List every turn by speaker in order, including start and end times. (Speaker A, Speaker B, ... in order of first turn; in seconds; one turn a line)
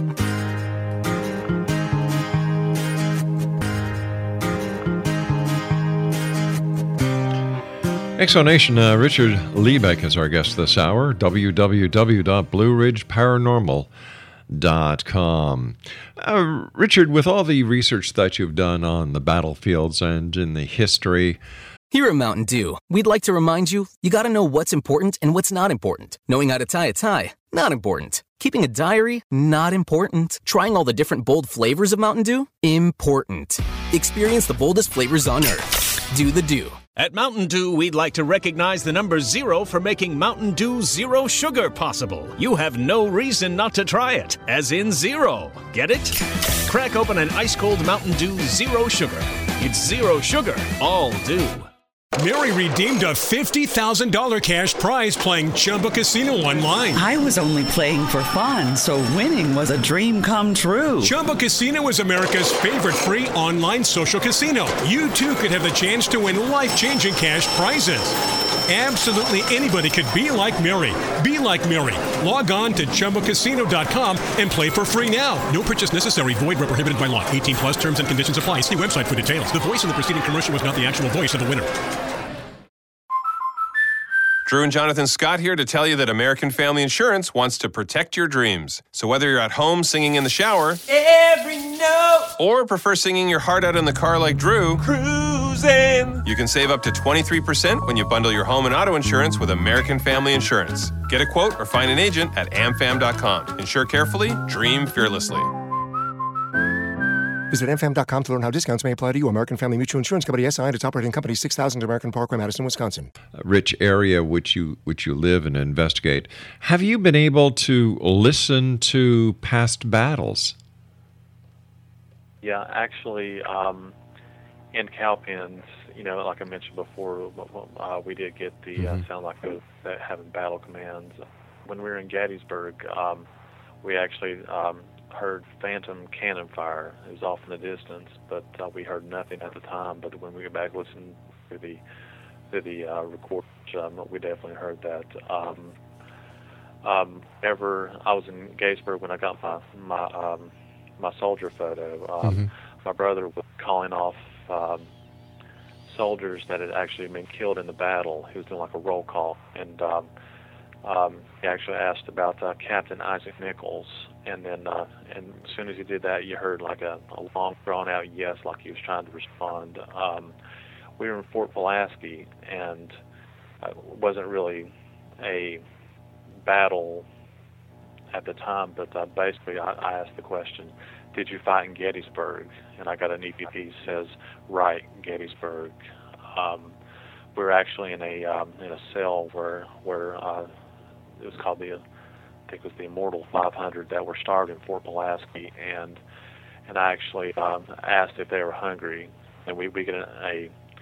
Speaker A: 8.2-13.9
Speaker A: 14.5-21.4
Speaker B: 21.9-36.8
Speaker C: 37.0-51.7
Speaker D: 52.2-57.0
Speaker E: 56.9-61.2
Speaker D: 61.0-68.2
Speaker D: 68.7-81.7
Speaker F: 84.5-90.8
Speaker G: 91.0-92.2
Speaker F: 92.3-94.9
Speaker G: 94.9-96.2
Speaker F: 96.2-105.5
Speaker H: 107.5-113.1
Speaker A: 113.3-120.6
Speaker I: 122.4-124.0
Speaker I: 124.7-133.3
Speaker A: 128.8-129.0
Speaker I: 133.8-141.8
Speaker I: 142.5-145.8
Speaker I: 146.8-154.9
Speaker I: 155.9-160.1
Speaker I: 160.8-170.3
Speaker I: 171.0-173.0
Speaker I: 173.6-175.6
Speaker I: 176.4-177.1
Speaker I: 178.1-185.8
Speaker I: 186.3-186.8
Speaker I: 187.3-190.5
Speaker I: 191.2-191.8
Speaker I: 192.5-196.0
Speaker I: 196.7-200.5